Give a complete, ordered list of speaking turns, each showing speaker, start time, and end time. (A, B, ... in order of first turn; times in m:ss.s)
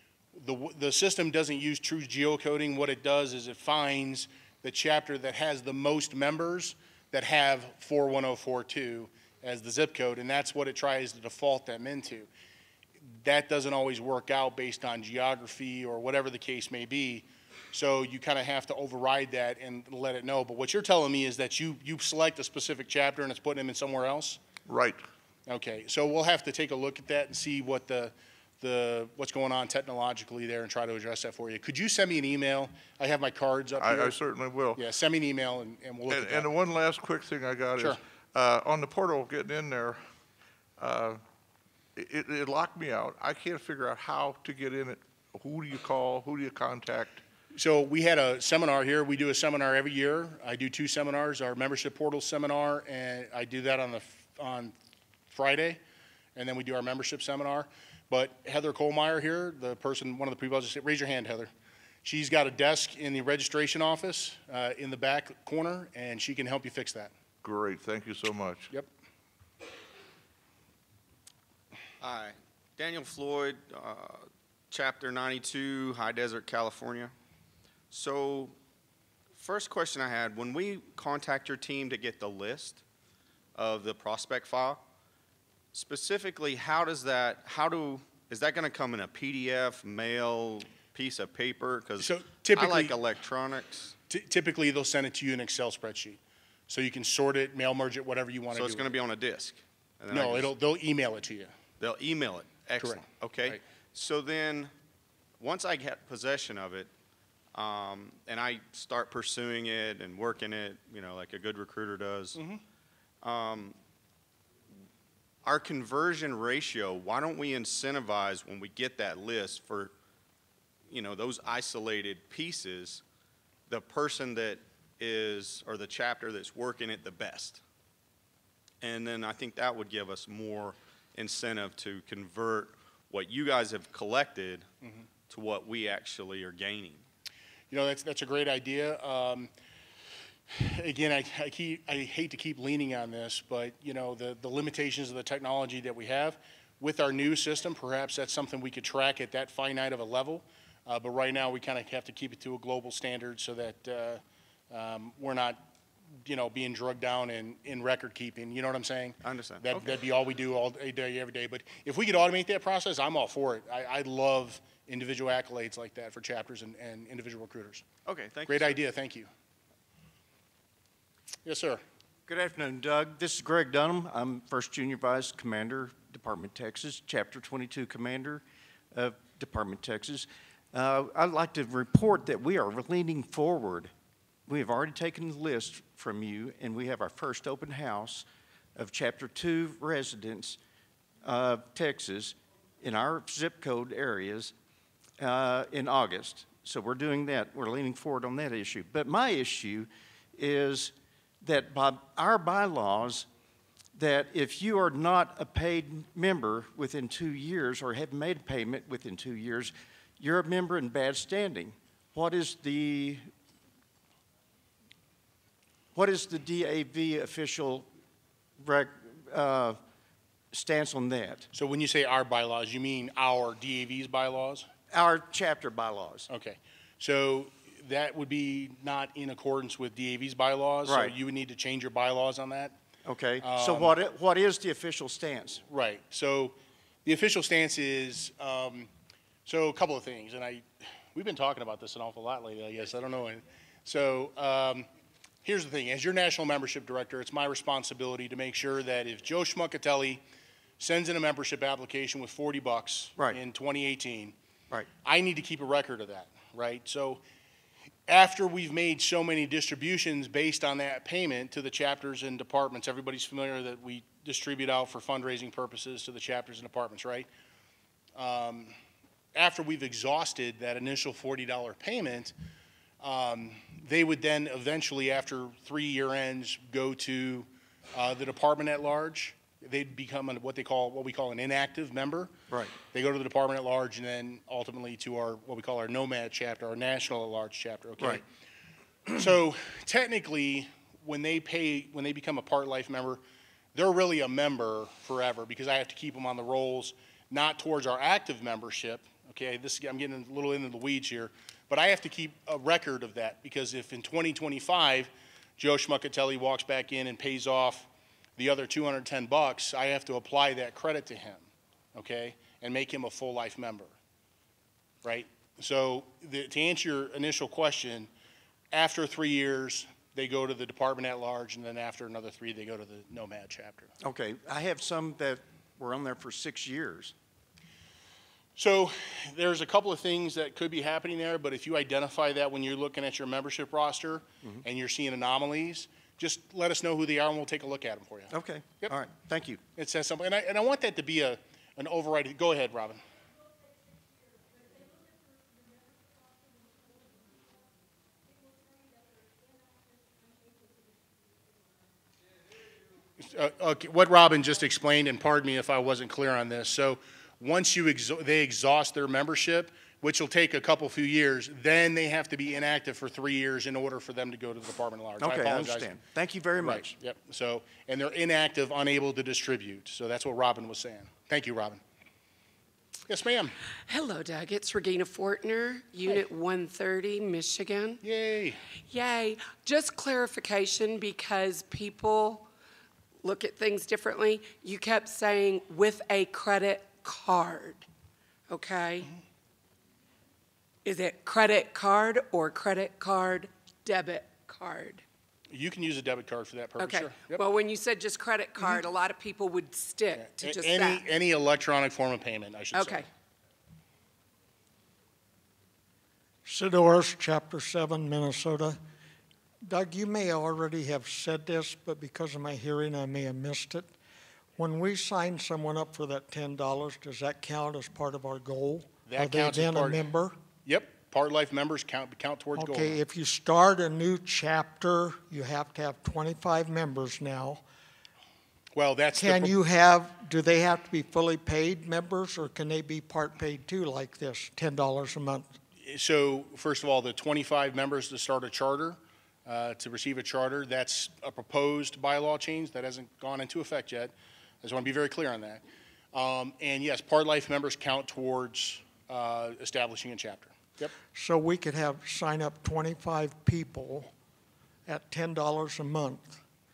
0:00.3-0:12.3 A
0:13.2-0:24.4 A
0:24.7-0:25.0 B
0:25.5-0:34.2 A
0:33.8-0:34.8 B
0:34.7-0:36.5 A
0:36.1-0:40.0 B
0:40.8-0:41.2 B
0:42.0-0:47.2 B
0:47.5-0:54.7 A
0:55.3-0:55.8 A
0:56.4-1:01.5 A
1:02.0-1:07.1 A
1:07.4-1:08.7 B
1:12.0-1:17.1 C
1:17.9-1:18.6 C
1:19.3-1:22.8 C
1:23.5-1:24.8 C
1:25.7-1:34.0 C
1:32.0-1:33.0 A
1:34.1-1:38.9 A
1:38.5-1:40.5 C
1:40.1-1:41.5 A
1:41.8-1:44.7 C
1:42.8-1:43.6 A
1:45.4-1:46.9 C
1:47.5-1:52.4 C
1:52.3-1:52.6 A
1:53.2-1:53.8 C
1:55.4-1:59.9 C
2:00.9-2:03.0 C
2:03.7-2:07.6 C
2:08.8-2:14.7 C
2:15.3-2:17.0 C
2:17.7-2:19.5 A
2:20.5-2:35.6 A
2:36.2-2:47.8 A
2:39.2-2:39.9 C
2:48.0-2:48.8 C
2:48.4-2:49.3 A
2:51.4-2:51.8 A
2:52.3-2:58.4 D
2:58.9-3:03.9 D
3:04.5-3:10.6 D
3:11.2-3:14.5 D
3:15.2-3:23.2 D
3:23.9-3:33.2 D
3:35.9-3:37.9 D
3:38.6-3:39.8 D
3:40.5-3:41.4 D
3:41.5-3:44.7 A
3:44.9-3:46.3 D
3:46.3-3:52.7 A
3:50.8-3:51.1 D
3:53.0-3:55.6 D
3:53.4-3:54.0 A
3:55.7-3:58.9 A
3:59.4-4:04.9 A
4:05.4-4:10.2 A
4:10.8-4:14.3 A
4:15.0-4:17.2 A
4:18.1-4:27.3 A
4:28.1-4:28.7 A
4:29.3-4:32.3 A
4:33.0-4:42.3 A
4:42.9-4:48.2 A
4:49.1-4:53.2 A
4:53.7-5:13.9 A
5:15.0-5:18.1 A
5:18.7-5:23.9 A
5:24.0-5:27.1 D
5:28.6-5:39.0 A
5:38.3-5:39.6 D
5:39.8-5:43.0 A
5:53.2-6:05.9 A
6:05.2-6:06.9 D
6:06.6-6:11.8 A
6:13.1-6:13.5 A
6:13.9-6:18.0 E
6:18.0-6:18.6 A
6:18.8-6:22.5 E
6:23.2-6:27.8 E
6:28.5-6:29.1 E
6:30.8-6:35.0 E
6:35.5-6:37.4 A
6:36.8-6:41.0 E
6:40.2-6:43.0 A
6:42.7-6:43.1 E
6:46.4-6:48.8 F
6:49.7-6:53.9 F
6:54.6-7:00.4 F
6:59.1-7:00.1 A
7:00.6-7:03.0 A
7:02.6-7:07.6 F
7:08.8-7:09.6 A
7:09.1-7:15.5 F
7:15.8-7:30.9 A
7:31.1-7:34.1 F
7:34.9-7:36.4 F